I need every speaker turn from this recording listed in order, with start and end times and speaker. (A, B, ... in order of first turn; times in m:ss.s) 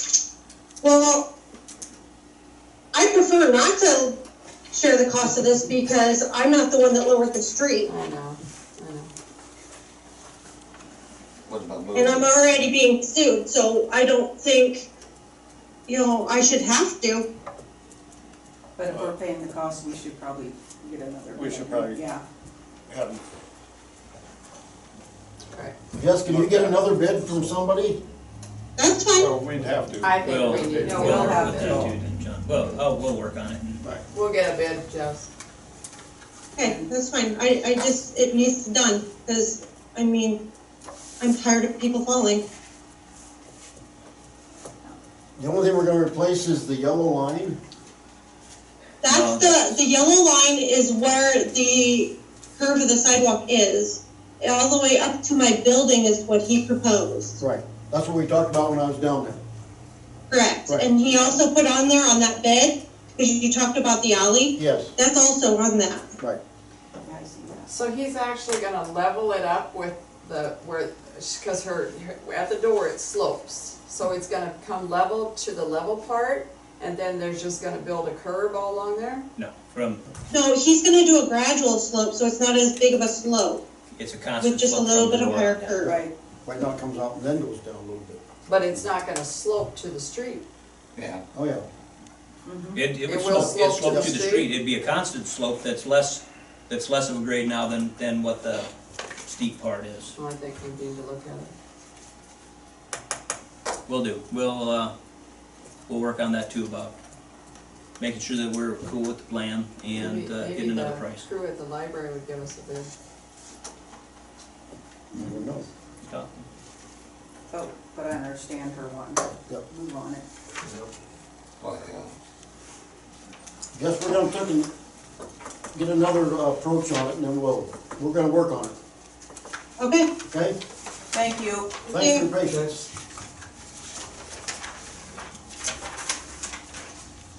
0:00.8-0:01.3 A
0:02.9-0:04.2 A
0:04.7-0:07.9 A
0:07.8-0:09.1 B
0:11.4-0:12.7 C
0:11.9-0:14.9 A
0:15.9-0:17.3 A
0:18.8-0:22.2 D
0:21.4-0:21.9 E
0:25.9-0:28.0 F
0:26.3-0:26.7 E
0:28.8-0:29.3 A
0:29.2-0:30.1 E
0:30.0-0:31.9 B
0:30.2-0:33.8 G
0:30.7-0:31.2 E
0:30.8-0:32.0 D
0:34.1-0:35.3 B
0:36.6-0:40.4 A
0:36.6-0:36.9 B
0:41.2-0:42.4 A
0:45.4-0:47.6 F
0:49.0-0:57.4 A
0:49.0-0:49.7 G
0:57.4-0:59.4 F
1:00.3-1:06.2 A
1:04.6-1:04.9 F
1:07.0-1:07.7 D
1:07.7-1:19.2 B
1:19.4-1:20.0 G
1:20.3-1:23.6 A
1:24.0-1:25.8 G
1:24.4-1:26.0 A
1:25.8-1:26.1 D
1:26.4-1:28.2 F
1:28.5-1:30.4 B
1:31.0-1:31.2 C
1:31.3-1:31.6 F
1:32.4-1:32.8 D
1:32.7-1:38.7 G
1:33.1-1:34.5 B
1:33.2-1:34.2 F
1:39.2-1:40.1 G
1:40.1-1:41.5 B
1:43.9-1:44.9 G
1:45.9-1:46.9 G
1:48.0-1:51.2 G
1:49.9-1:52.9 B
1:55.1-1:55.6 F
1:56.0-1:56.4 G
1:57.5-2:00.2 D
2:01.6-2:02.1 C
2:03.7-2:04.7 F
2:05.7-2:08.7 F
2:09.8-2:10.1 A
2:10.3-2:10.6 F
2:11.1-2:11.8 D
2:11.9-2:12.3 A
2:11.9-2:12.8 F